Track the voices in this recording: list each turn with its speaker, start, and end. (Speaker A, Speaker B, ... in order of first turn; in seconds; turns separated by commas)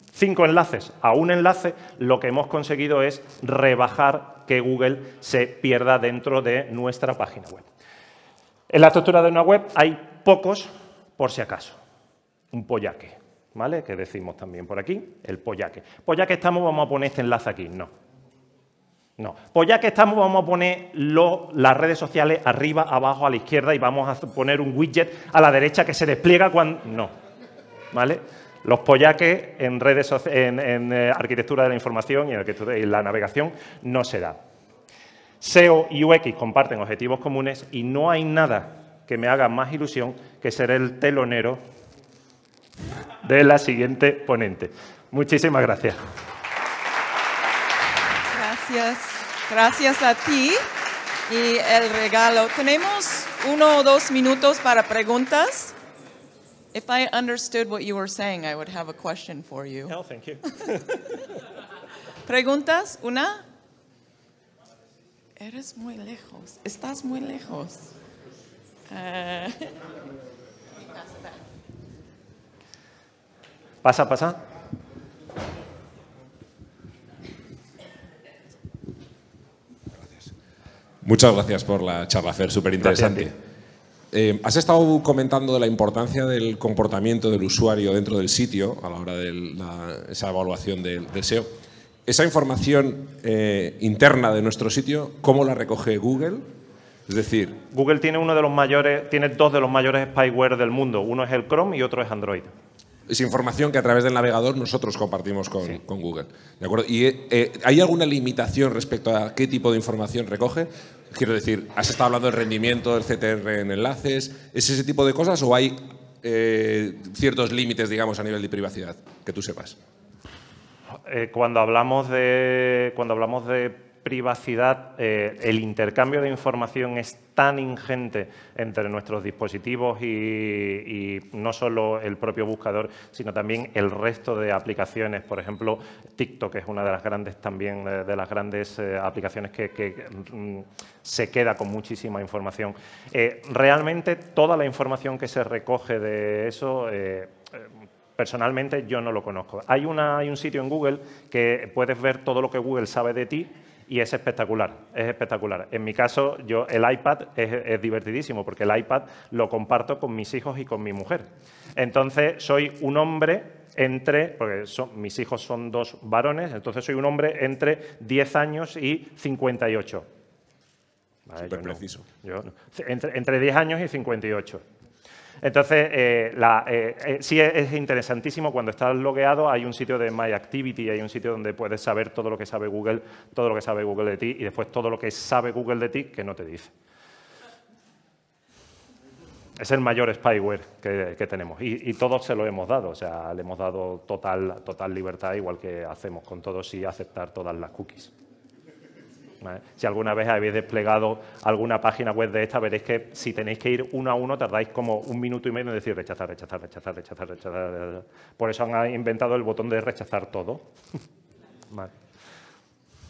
Speaker A: 0.1-7.7, Speaker A: 8.7-11.8, Speaker A: 12.5-17.9, Speaker A: 19.2-27.1, Speaker A: 27.9-34.4, Speaker A: 35.4-41.6, Speaker A: 43.2-46.0, Speaker B: 48.3-50.6, Speaker B: 51.3-55.8, Speaker B: 56.7-60.0, Speaker A: 59.9-61.1, Speaker B: 62.2-63.5, Speaker B: 65.4-67.9, Speaker B: 68.9-69.9, Speaker A: 73.8-74.4, Speaker C: 81.0-83.3, Speaker A: 82.8-83.3, Speaker C: 84.1-91.5, Speaker C: 92.1-96.5, Speaker C: 97.1-97.6, Speaker A: 97.7-102.5, Speaker C: 103.1-119.8, Speaker A: 121.0-170.1, Speaker A: 171.3-174.6, Speaker C: 171.5-172.0, Speaker A: 175.4-186.7, Speaker A: 189.6-198.1, Speaker A: 199.4-210.7